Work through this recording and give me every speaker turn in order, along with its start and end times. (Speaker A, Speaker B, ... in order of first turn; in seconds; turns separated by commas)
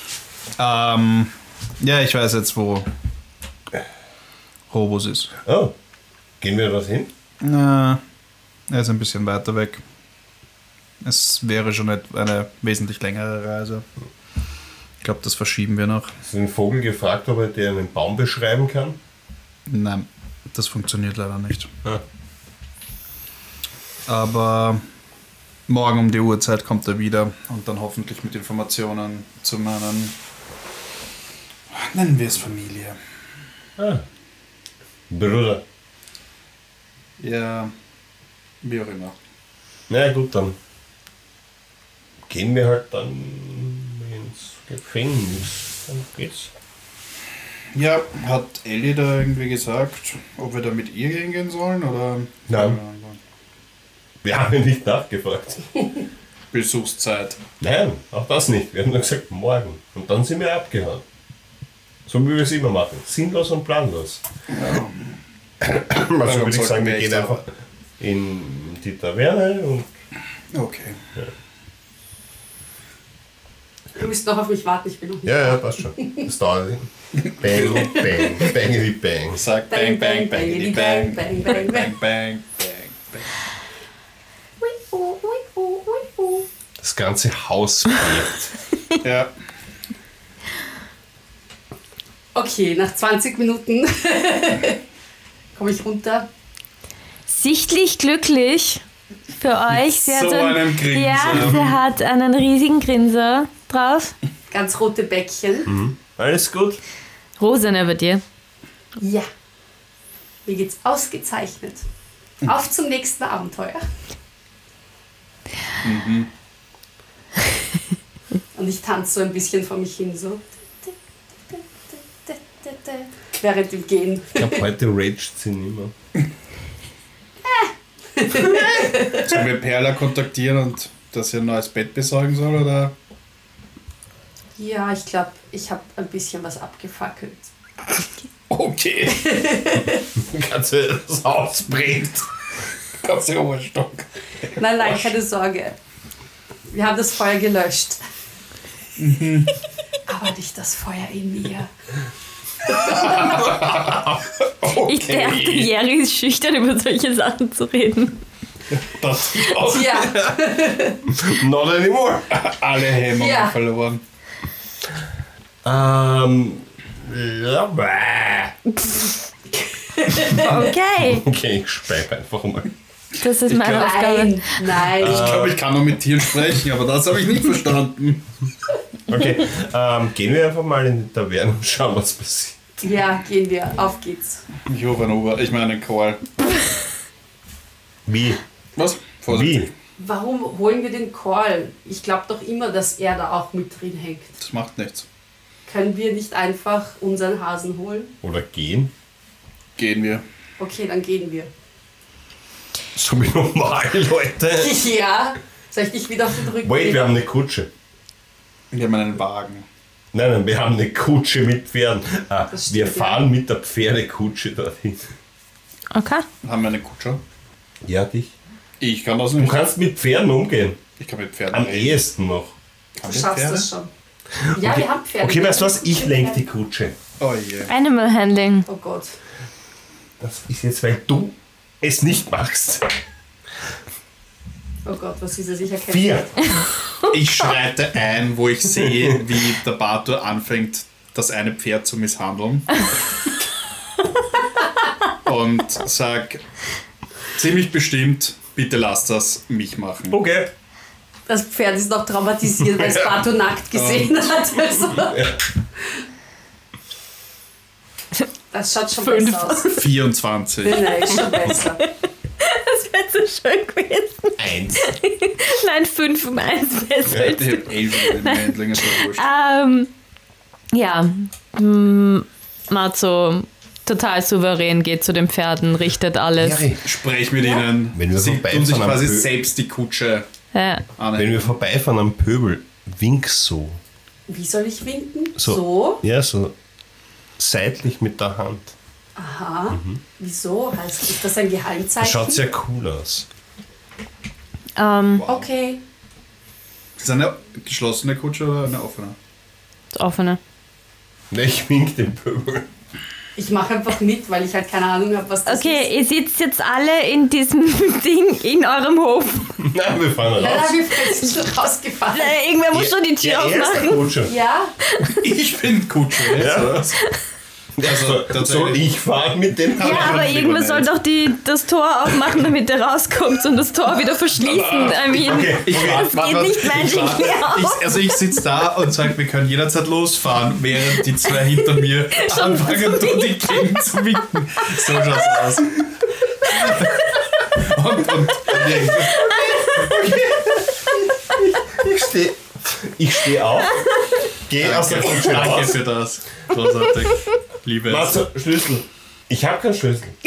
Speaker A: 0.6-2.9, Speaker A: 4.7-5.3, Speaker B: 5.5-5.7, Speaker B: 6.4-7.1, Speaker A: 7.4-8.0, Speaker A: 8.7-9.8, Speaker A: 11.0-13.8, Speaker A: 15.0-16.1, Speaker B: 16.2-19.0, Speaker A: 19.7-21.7, Speaker A: 24.1-24.8, Speaker A: 25.7-30.1, Speaker A: 31.7-33.0, Speaker B: 33.8-34.0, Speaker B: 35.1-35.6, Speaker A: 37.2-37.7, Speaker A: 38.6-39.1, Speaker B: 39.9-40.5, Speaker B: 42.3-46.5, Speaker A: 47.7-53.2, Speaker B: 52.5-52.8, Speaker B: 54.2-55.9, Speaker A: 56.5-57.4, Speaker B: 57.6-61.0, Speaker B: 62.1-64.2, Speaker A: 64.5-65.1, Speaker B: 65.6-67.5, Speaker A: 66.2-67.4, Speaker B: 68.0-69.9, Speaker A: 70.5-71.0, Speaker C: 73.9-76.2, Speaker B: 75.2-79.4, Speaker A: 77.4-77.9, Speaker C: 77.5-78.5, Speaker A: 79.3-83.3, Speaker C: 79.7-81.9, Speaker C: 84.6-86.5, Speaker B: 86.8-88.5, Speaker A: 89.0-89.3, Speaker C: 92.3-94.8, Speaker C: 95.5-96.3, Speaker D: 97.3-98.8, Speaker D: 99.3-104.1, Speaker A: 99.7-101.8, Speaker B: 101.3-101.5, Speaker C: 104.5-105.7, Speaker B: 105.7-106.8, Speaker D: 107.4-108.2, Speaker C: 109.0-109.3, Speaker C: 110.5-111.8, Speaker C: 112.4-113.8, Speaker A: 115.8-116.3, Speaker C: 118.5-120.9, Speaker C: 121.5-124.6, Speaker B: 124.3-125.9, Speaker C: 127.4-129.4, Speaker A: 129.2-132.9, Speaker C: 134.6-137.5, Speaker A: 138.5-139.4, Speaker C: 139.1-140.1, Speaker B: 140.2-142.3, Speaker A: 143.0-144.6, Speaker C: 144.6-145.8, Speaker C: 146.7-148.0, Speaker A: 149.0-149.5, Speaker C: 150.1-151.7, Speaker C: 152.6-153.4, Speaker A: 152.8-154.0, Speaker B: 153.6-154.8, Speaker A: 154.6-155.7, Speaker D: 154.7-158.2, Speaker A: 158.7-160.2, Speaker C: 159.6-161.0, Speaker B: 161.1-162.4, Speaker A: 162.3-164.0, Speaker C: 163.1-163.5, Speaker B: 165.6-168.6, Speaker C: 169.5-170.7, Speaker D: 170.3-171.2, Speaker B: 170.7-172.7, Speaker D: 173.2-174.6, Speaker A: 173.5-173.9, Speaker C: 173.7-175.4, Speaker B: 174.8-175.6, Speaker A: 175.0-178.3, Speaker B: 179.1-182.6, Speaker C: 182.8-184.4, Speaker A: 184.6-186.6, Speaker B: 188.1-188.4, Speaker A: 188.8-189.7, Speaker B: 189.3-189.7, Speaker C: 190.0-194.3, Speaker A: 194.4-195.1, Speaker C: 195.7-198.1, Speaker B: 198.2-198.9, Speaker A: 199.8-200.2, Speaker C: 200.6-201.5, Speaker B: 202.9-204.8, Speaker C: 204.6-207.1, Speaker B: 206.6-207.7, Speaker A: 208.7-209.7, Speaker B: 210.1-215.1, Speaker C: 212.5-213.2, Speaker D: 215.9-216.2, Speaker A: 216.4-217.2, Speaker B: 217.8-218.3, Speaker A: 218.8-219.6, Speaker B: 219.4-220.8, Speaker A: 221.0-222.0, Speaker B: 221.5-222.5, Speaker A: 223.0-223.7, Speaker C: 223.0-223.9, Speaker B: 224.4-227.0, Speaker C: 224.5-226.4, Speaker A: 227.2-227.7, Speaker D: 227.7-228.7, Speaker C: 228.7-229.2, Speaker B: 230.2-232.9, Speaker C: 234.8-236.2, Speaker B: 235.9-236.7, Speaker A: 237.1-242.9, Speaker B: 238.8-239.1, Speaker A: 245.2-246.4, Speaker A: 247.3-250.2, Speaker B: 250.1-250.5, Speaker C: 251.3-256.0, Speaker A: 253.7-254.4, Speaker B: 255.0-255.4, Speaker C: 258.5-259.9, Speaker D: 259.0-259.8, Speaker A: 259.7-261.1, Speaker C: 260.6-261.8, Speaker D: 261.1-269.9, Speaker B: 264.4-264.9, Speaker B: 267.1-267.4, Speaker A: 267.3-269.3, Speaker D: 270.7-276.6, Speaker B: 276.4-276.8, Speaker A: 276.8-280.2, Speaker B: 277.9-279.3, Speaker D: 280.5-280.8, Speaker A: 281.0-281.5, Speaker B: 281.1-283.8, Speaker C: 284.3-286.0, Speaker B: 285.4-286.5, Speaker B: 287.4-288.7, Speaker C: 289.1-292.4, Speaker B: 289.7-290.0, Speaker B: 292.0-293.2, Speaker D: 294.8-295.3, Speaker A: 295.2-295.5, Speaker C: 295.2-295.8, Speaker A: 297.0-299.1, Speaker D: 299.9-300.4, Speaker B: 301.3-302.7, Speaker C: 303.4-305.9, Speaker D: 305.4-309.6, Speaker B: 309.6-310.8, Speaker C: 310.4-312.4, Speaker D: 312.1-314.1, Speaker B: 312.7-314.3, Speaker C: 314.2-314.7, Speaker D: 314.8-315.2, Speaker A: 315.1-317.0, Speaker B: 316.3-316.8, Speaker B: 317.8-320.3, Speaker A: 317.8-318.9, Speaker A: 319.7-320.9, Speaker D: 319.8-328.2, Speaker A: 324.4-339.9, Speaker B: 325.2-326.1, Speaker D: 332.1-333.7, Speaker D: 339.1-339.9, Speaker B: 339.4-345.8, Speaker A: 344.6-348.2, Speaker B: 347.9-350.1